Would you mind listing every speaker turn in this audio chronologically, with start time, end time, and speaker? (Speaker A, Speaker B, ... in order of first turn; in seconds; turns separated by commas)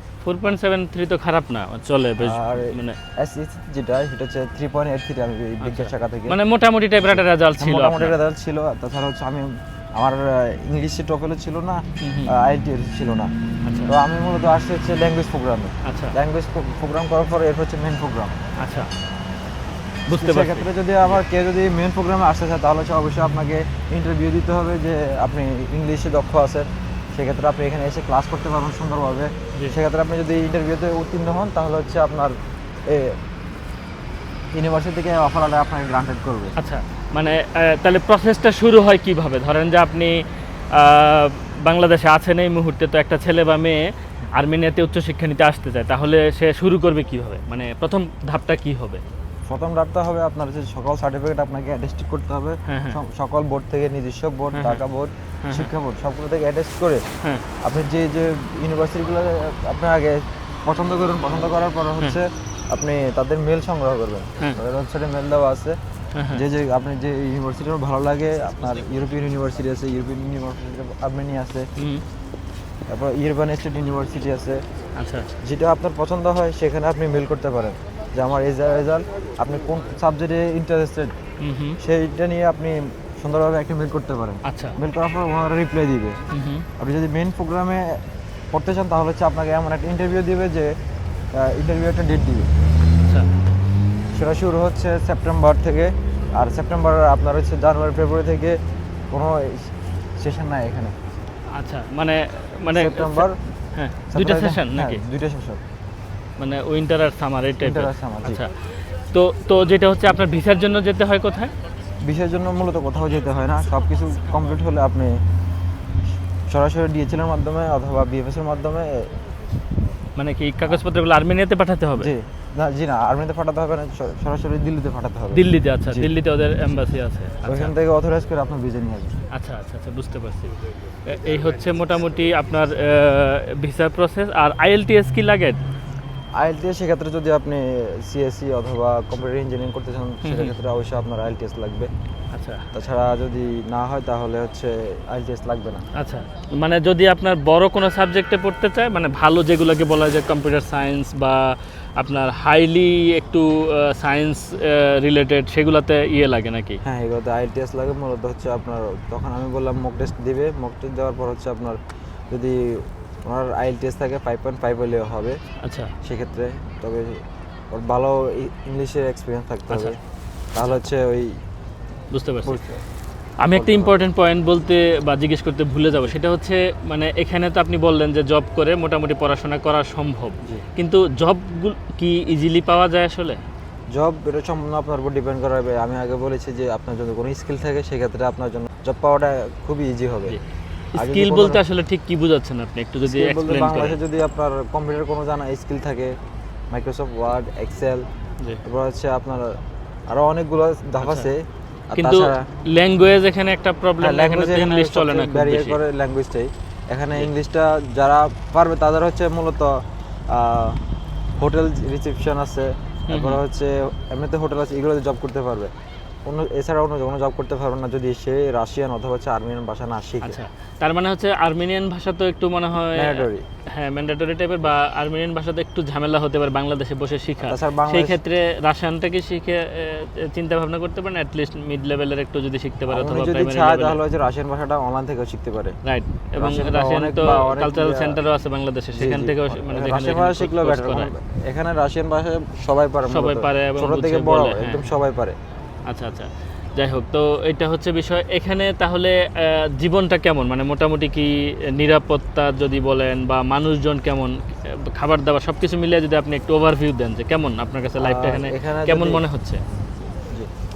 Speaker A: 0.2-3.0, Speaker B: 2.2-6.4, Speaker A: 5.6-8.2, Speaker B: 7.0-13.3, Speaker A: 12.0-12.3, Speaker A: 13.7-13.9, Speaker B: 13.9-18.3, Speaker A: 15.8-16.1, Speaker A: 18.6-18.9, Speaker A: 20.1-21.2, Speaker B: 20.1-33.2, Speaker B: 34.5-36.5, Speaker A: 36.6-49.0, Speaker B: 49.5-57.0, Speaker A: 52.7-53.0, Speaker A: 54.5-54.8, Speaker A: 55.4-55.7, Speaker B: 57.6-65.8, Speaker A: 66.1-66.4, Speaker B: 66.3-71.7, Speaker A: 71.8-72.0, Speaker B: 72.9-74.6, Speaker A: 75.0-75.3, Speaker B: 75.4-81.1, Speaker A: 81.4-81.8, Speaker B: 81.8-86.2, Speaker A: 84.4-84.8, Speaker A: 86.3-86.7, Speaker B: 86.8-88.0, Speaker B: 88.5-90.7, Speaker B: 91.3-92.5, Speaker B: 94.1-98.6, Speaker B: 99.1-101.0, Speaker A: 101.5-105.0, Speaker B: 102.7-103.4, Speaker B: 104.1-105.6, Speaker A: 106.4-108.6, Speaker B: 107.6-108.4, Speaker A: 109.1-111.5, Speaker B: 112.0-115.2, Speaker B: 116.5-119.1, Speaker A: 120.2-122.1, Speaker B: 122.0-126.1, Speaker A: 125.3-127.7, Speaker B: 127.4-129.2, Speaker A: 129.3-130.5, Speaker A: 131.0-135.6, Speaker B: 136.4-141.9, Speaker A: 140.2-140.5, Speaker A: 142.3-142.6, Speaker B: 142.7-145.9, Speaker A: 145.9-156.8, Speaker B: 156.8-161.8, Speaker B: 162.3-165.4, Speaker A: 165.6-165.9, Speaker B: 166.0-170.0, Speaker A: 169.7-170.0, Speaker B: 170.5-171.4, Speaker A: 172.1-172.6, Speaker B: 172.4-172.8, Speaker A: 173.4-183.4, Speaker B: 173.5-174.1, Speaker B: 183.9-190.4, Speaker A: 190.9-194.0, Speaker B: 190.9-191.6, Speaker B: 193.0-196.1, Speaker B: 196.7-198.0, Speaker B: 198.6-199.6, Speaker B: 200.1-202.4, Speaker A: 201.0-201.3, Speaker A: 201.9-205.8, Speaker B: 204.0-210.8, Speaker B: 211.4-215.7, Speaker A: 213.1-213.4, Speaker B: 216.2-220.4, Speaker A: 220.2-234.0, Speaker B: 222.9-223.5, Speaker B: 227.4-228.2, Speaker B: 232.9-235.8, Speaker A: 235.8-241.1, Speaker B: 236.4-238.2, Speaker B: 238.9-245.4, Speaker A: 243.1-244.8, Speaker A: 245.9-259.6, Speaker B: 258.0-259.2